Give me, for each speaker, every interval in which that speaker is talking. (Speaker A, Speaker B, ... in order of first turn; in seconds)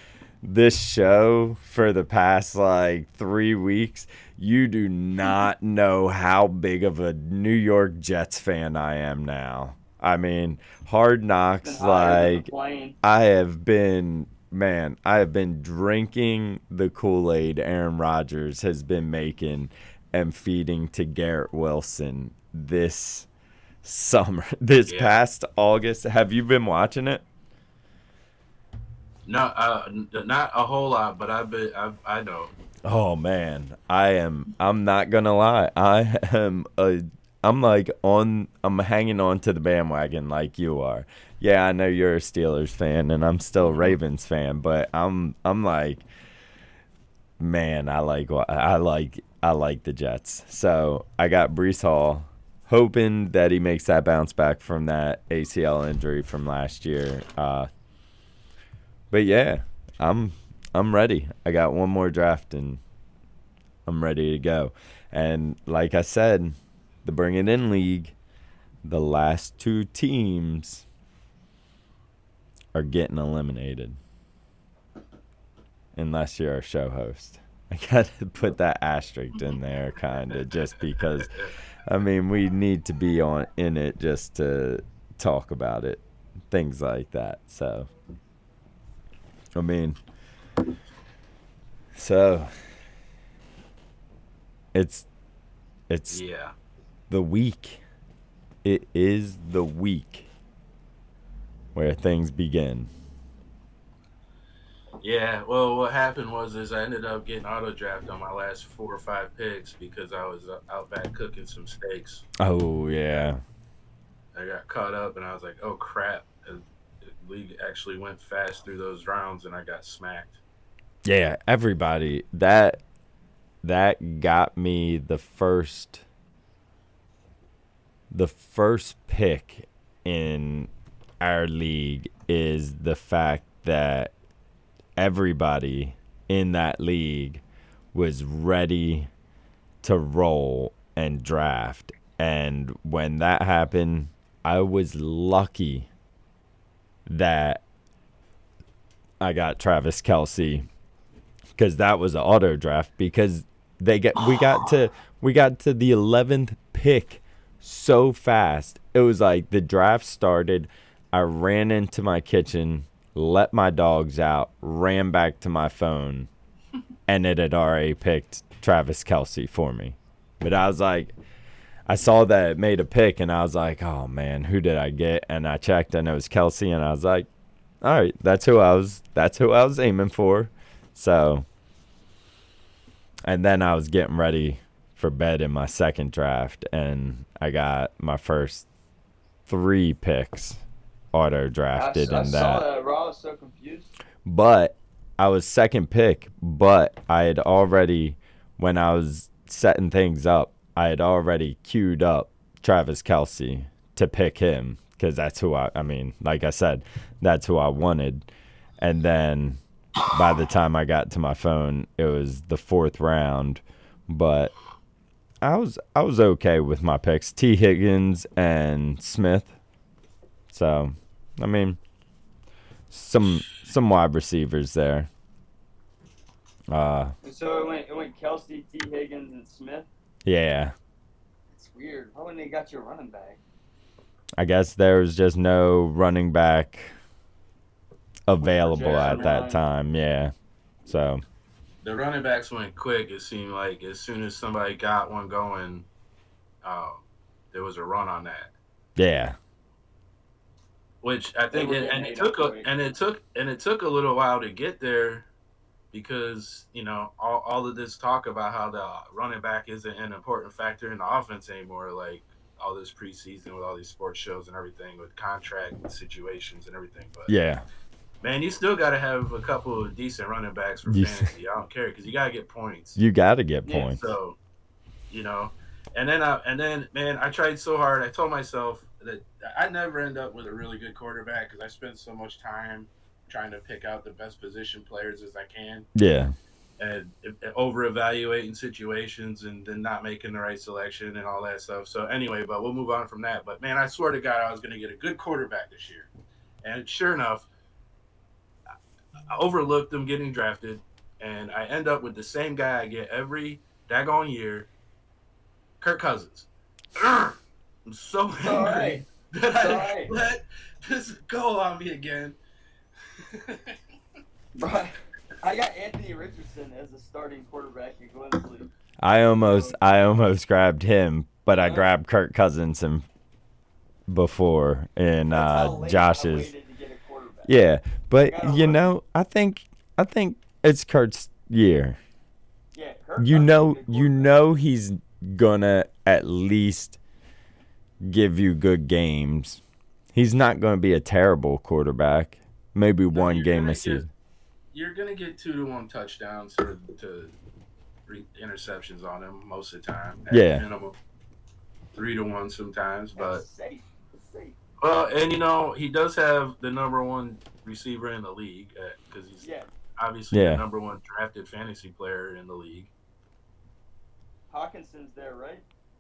Speaker A: 0.4-12.5, 13.0-23.3, 23.8-27.2, 32.8-46.0, 47.4-57.7, 59.1-62.8, 63.9-68.1, 68.8-70.8, 72.7-74.0, 75.9-81.3, 81.8-87.9, 89.5-90.0, 91.9-92.5, 94.7-95.0, 95.9-96.2, 97.1-97.8, 98.6-100.3, 101.7-102.9, 112.4-113.4, 121.0-122.8, 123.6-126.0, 128.1-134.1, 135.0-139.1, 139.8-145.9, 147.1-147.6, 149.2-150.7, 151.6-166.3, 167.1-171.1, 171.9-177.3, 177.8-181.4, 183.2-188.7, 189.5-190.6, 191.1-192.6, 194.2-208.3, 208.8-214.5, 215.4-219.5, 220.5-221.8, 222.9-225.1, 226.7-227.1, 230.2-230.7, 234.4-236.9, 238.3-240.3, 240.8-241.2, 248.9-249.4, 267.3-267.6, 270.9-271.3, 273.0-274.0, 285.9-286.3, 319.0-323.1, 324.1-326.5, 327.4-332.0, 333.2-337.0, 338.0-339.6, 340.1-344.1, 350.3-350.6, 360.3-360.6
Speaker B: 11.6-12.9, 191.8-193.9, 227.2-229.9, 231.5-233.4, 238.4-239.6, 251.5-252.7, 308.4-310.1, 314.6-318.7, 321.6-321.9, 325.3-327.6, 328.3-328.8, 332.7-334.3, 353.1-354.6, 359.4-359.7, 364.5-365.6
Speaker C: 24.9-25.2, 29.2-32.5, 81.2-81.6, 96.1-96.5, 105.0-112.2, 114.3-120.4, 238.8-239.3, 241.8-245.8, 246.6-248.5, 251.0-255.3, 255.9-267.3, 268.2-273.0, 273.6-274.4, 275.1-285.9, 286.8-296.1, 296.6-297.5, 299.3-304.7, 305.8-312.4, 313.3-313.8, 343.1-344.1, 344.7-347.3, 348.1-350.9, 351.9-353.4, 354.8-362.9